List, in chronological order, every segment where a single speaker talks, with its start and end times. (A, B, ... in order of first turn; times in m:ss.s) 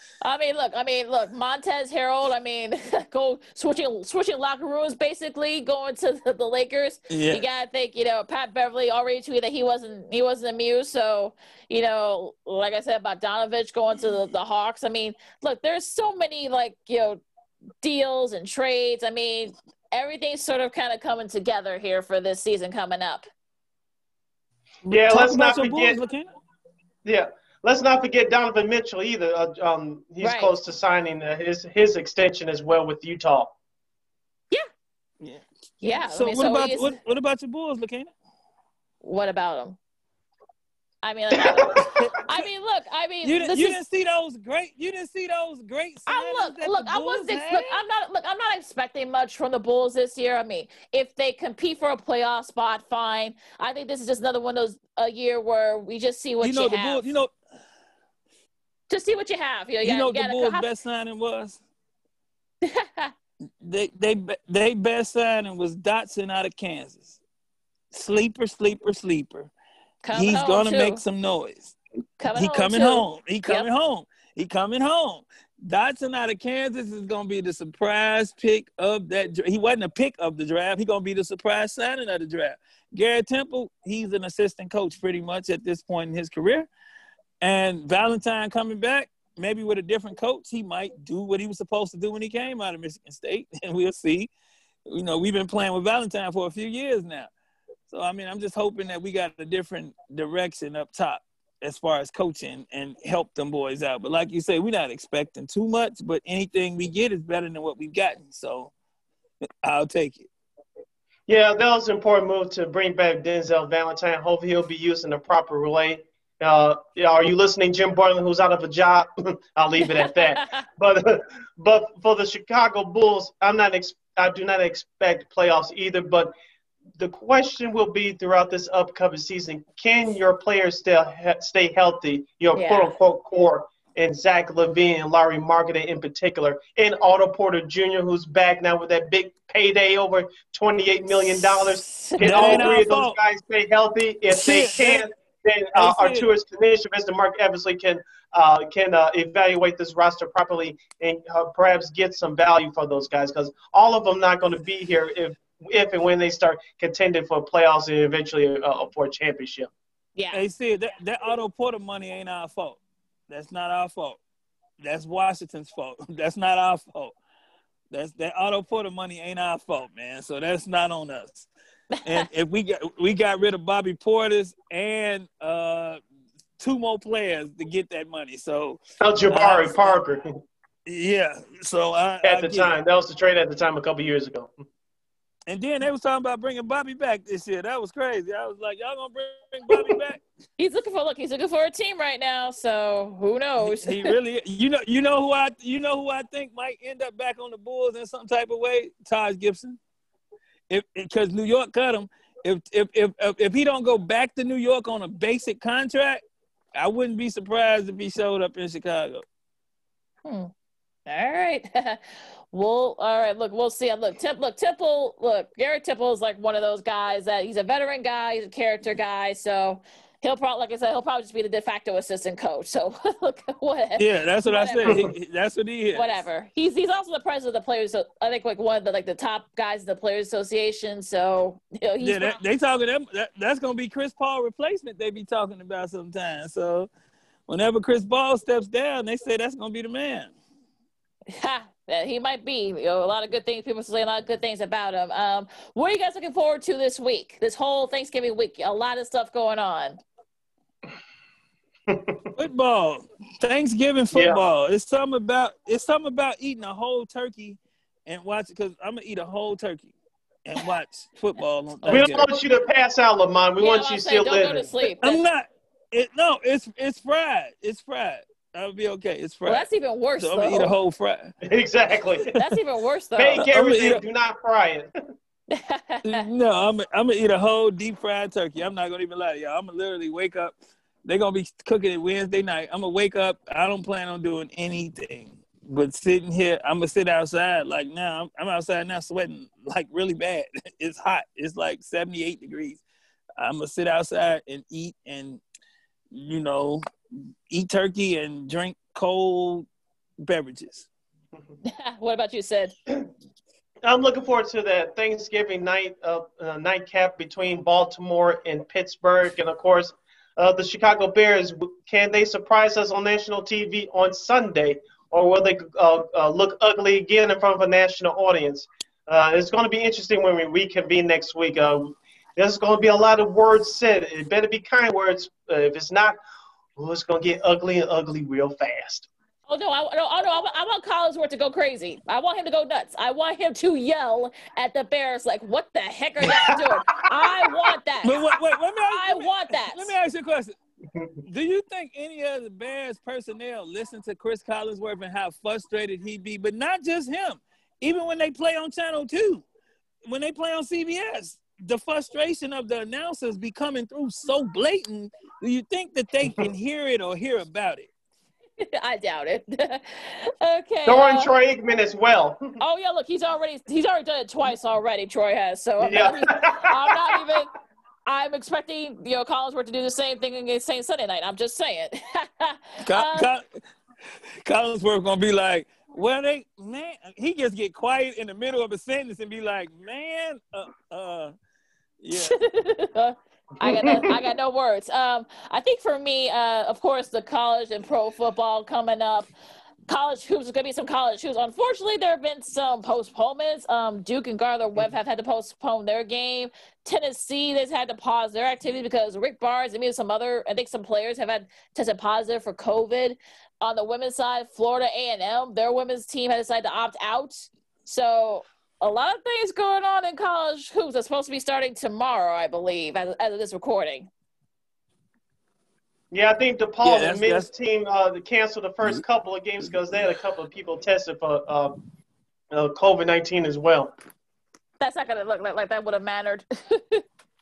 0:00.2-0:17.2 A
0:07.1-0:07.4 B
0:17.8-0:23.2 A
0:24.8-0:26.3 B
0:24.9-0:26.0 C
0:27.0-0:33.5 C
0:30.2-0:30.5 A
0:35.8-0:36.9 A
0:36.0-0:38.1 B
0:39.0-0:39.8 A
0:41.0-0:43.8 A
0:41.8-0:42.2 B
0:43.2-0:47.8 B
0:46.1-0:57.1 A
0:56.4-0:57.3 B
0:58.9-1:00.7 A
0:59.8-1:01.6 B
1:02.6-1:03.1 A
1:03.6-1:07.2 B
1:07.9-1:09.5 B
1:10.0-1:11.0 A
1:10.1-1:11.8 B
1:12.2-1:13.7 A
1:12.3-1:26.7 B
1:27.4-1:34.3 B
1:34.9-1:37.3 B
1:37.9-1:48.7 B
1:49.6-1:50.3 B
1:51.3-2:06.3 C
2:00.0-2:00.6 A
2:07.0-2:39.7 C
2:12.5-2:12.9 A
2:21.3-2:22.8 A
2:22.2-2:23.2 B
2:24.3-2:25.1 B
2:25.7-2:26.2 B
2:40.2-2:40.4 A
2:40.3-2:44.2 B
2:44.8-2:47.1 B
2:47.9-2:51.5 B
2:52.0-2:52.2 A
2:52.0-2:56.0 B
2:56.6-3:00.0 B
2:59.0-3:00.3 C
3:00.8-3:02.7 B
3:02.2-3:04.5 C
3:05.5-3:10.2 B
3:09.7-3:10.0 A
3:10.6-3:14.1 A
3:13.6-3:19.8 B
3:20.7-3:26.2 B
3:26.7-3:29.2 B
3:30.2-3:30.5 A
3:31.0-3:45.1 A
3:44.0-3:46.2 B
3:44.8-3:45.1 C
3:45.9-3:52.4 A
3:52.0-3:56.9 B
3:57.5-4:00.3 B
4:01.3-4:10.0 A
4:11.9-4:12.3 C
4:12.3-4:19.9 B
4:14.1-4:14.4 C
4:20.4-4:22.3 B
4:21.8-4:24.7 C
4:23.6-4:25.2 A
4:25.0-4:29.7 B
4:29.4-4:30.8 A
4:30.2-4:31.3 B
4:31.4-4:32.3 C
4:32.3-4:33.5 A
4:33.2-4:34.9 C
4:33.4-4:34.0 B
4:35.5-4:36.2 A
4:36.0-4:52.8 B
4:53.4-4:55.4 B
4:56.1-4:56.8 B
4:57.5-4:59.7 B
5:00.2-5:00.9 B
5:01.6-5:02.7 A
5:03.8-5:26.2 C
5:26.8-5:29.1 C
5:29.5-5:38.3 A
5:36.2-5:37.5 C
5:38.0-5:40.6 B
5:38.9-5:39.9 A
5:40.9-5:41.2 C
5:41.3-5:49.4 B
5:50.0-5:57.9 B
5:58.6-6:01.3 A
6:00.8-6:02.6 C
6:02.6-6:07.5 A
6:05.8-6:07.2 C
6:08.1-6:13.3 A
6:12.8-6:13.4 B
6:14.4-6:21.3 B
6:22.0-6:22.3 B
6:22.1-6:29.3 A
6:23.6-6:24.2 C
6:29.9-6:54.1 A
6:56.1-7:01.8 C
6:56.8-6:57.5 B
7:02.5-7:03.9 C
7:04.8-7:07.0 A